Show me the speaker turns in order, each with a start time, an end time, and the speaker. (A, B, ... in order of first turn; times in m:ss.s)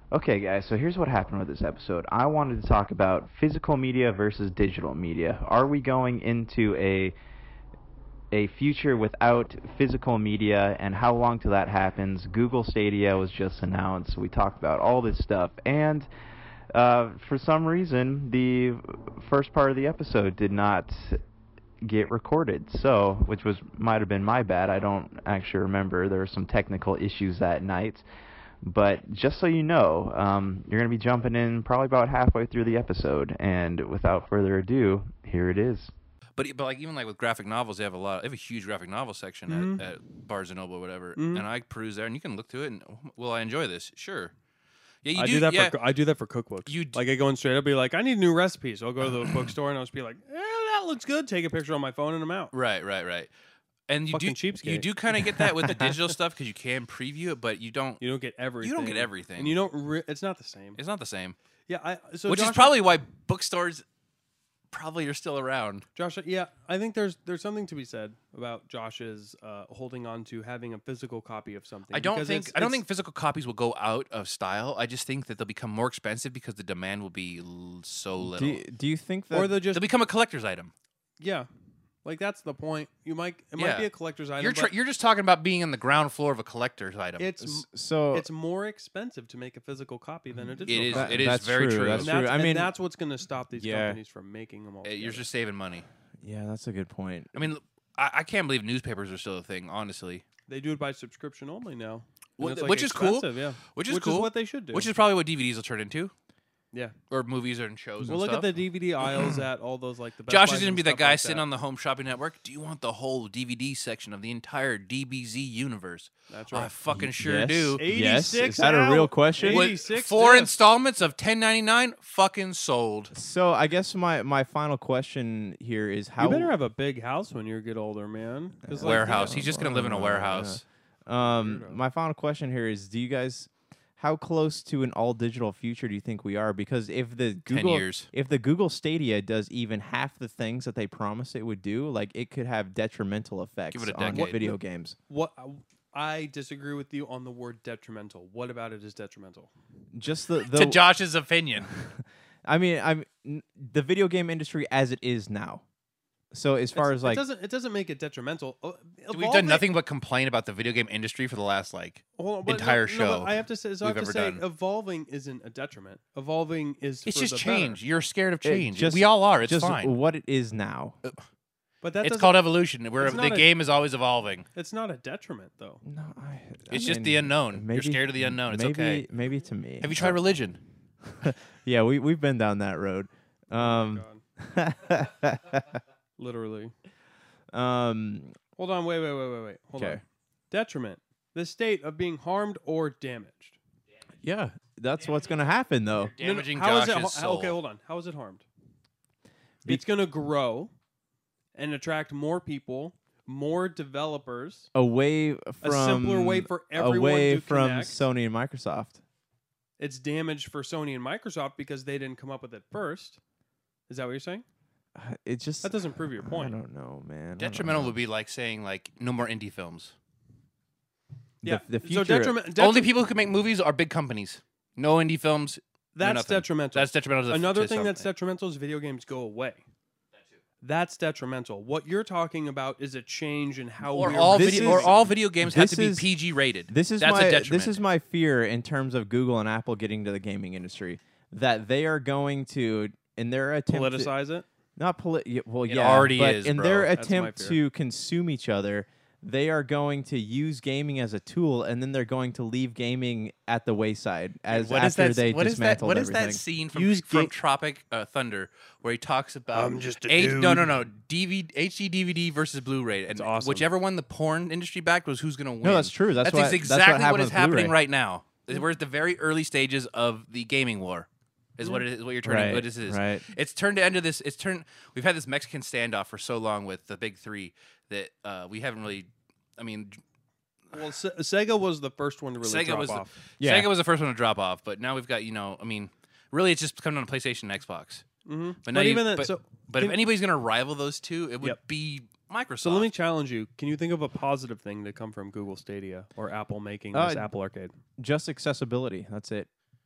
0:00.1-0:07.1 A
0:08.3-0:16.1 A
0:16.7-0:21.2 A
0:21.8-0:28.0 A
0:28.6-0:35.9 A
0:36.4-0:44.3 B
0:39.5-0:39.8 C
0:41.1-0:41.4 C
0:45.0-0:45.8 B
0:45.1-0:52.5 C
0:46.6-0:47.0 B
0:52.5-0:53.3 B
0:53.9-0:58.0 B
0:54.1-0:56.0 C
0:58.0-1:00.8 C
0:58.6-0:59.6 B
1:00.8-1:01.4 B
1:01.7-1:02.9 C
1:02.3-1:03.8 B
1:04.7-1:05.8 B
1:05.9-1:12.8 C
1:11.9-1:18.6 B
1:18.2-1:19.7 D
1:19.3-1:19.9 C
1:19.7-1:20.7 B
1:21.2-1:21.5 C
1:22.0-1:24.7 C
1:23.6-1:27.3 B
1:27.2-1:31.3 C
1:27.4-1:28.3 D
1:30.6-1:32.7 D
1:30.7-1:32.2 B
1:32.0-1:35.2 C
1:33.5-1:34.0 D
1:34.8-1:35.8 B
1:36.2-1:37.3 D
1:37.3-1:40.2 B
1:40.5-1:44.9 C
1:42.4-1:46.1 B
1:47.1-1:48.5 B
1:48.0-1:51.4 C
1:49.1-1:49.4 B
1:50.3-1:57.8 B
1:56.3-1:56.7 C
1:57.0-1:59.7 D
1:57.8-2:00.5 C
1:59.5-2:03.1 B
2:03.1-2:06.5 D
2:06.2-2:09.7 C
2:08.6-2:25.0 D
2:08.8-2:10.6 B
2:11.2-2:11.8 C
2:17.5-2:18.1 B
2:23.7-2:24.4 B
2:24.1-2:24.6 C
2:25.1-2:29.5 C
2:29.9-2:30.8 D
2:30.5-2:31.7 B
2:31.7-2:35.6 D
2:36.3-2:37.2 D
2:36.7-2:39.7 C
2:39.1-2:44.4 B
2:42.2-2:47.8 C
2:47.0-2:50.0 B
2:48.4-2:51.0 D
2:51.8-2:53.5 C
2:52.0-2:54.4 B
2:54.5-2:55.8 C
2:55.8-3:00.3 D
2:56.7-2:59.0 B
2:59.8-3:00.6 B
3:01.0-3:05.8 D
3:03.5-3:04.2 C
3:06.2-3:06.7 C
3:07.5-3:08.3 D
3:08.6-3:13.6 C
3:09.8-3:10.0 D
3:14.2-3:16.1 D
3:16.0-3:17.6 B
3:16.2-3:18.4 C
3:19.6-3:20.7 C
3:21.5-3:24.7 C
3:24.7-3:29.0 D
3:25.6-3:28.0 C
3:29.8-3:33.2 C
3:33.9-3:34.4 C
3:35.0-3:38.0 D
3:35.6-3:36.6 C
3:37.4-3:39.9 B
3:41.4-3:42.5 D
3:41.4-3:42.9 C
3:42.6-3:48.1 B
3:45.9-3:49.6 C
3:50.6-3:55.0 C
3:53.9-3:57.8 B
3:54.2-3:56.1 D
3:56.7-4:04.1 D
4:03.7-4:04.4 C
4:04.8-4:16.4 D
4:05.6-4:06.9 B
4:06.9-4:07.6 C
4:14.5-4:40.0 B
4:16.7-4:17.3 C
4:19.5-4:20.8 C
4:23.1-4:23.7 C
4:25.6-4:27.8 D
4:32.2-4:33.3 D
4:40.7-4:43.1 C
4:42.4-4:48.0 B
4:43.4-4:43.7 D
4:48.2-4:50.0 C
4:48.6-4:52.9 B
4:52.6-4:57.7 C
4:56.9-4:57.3 D
4:58.0-4:59.5 D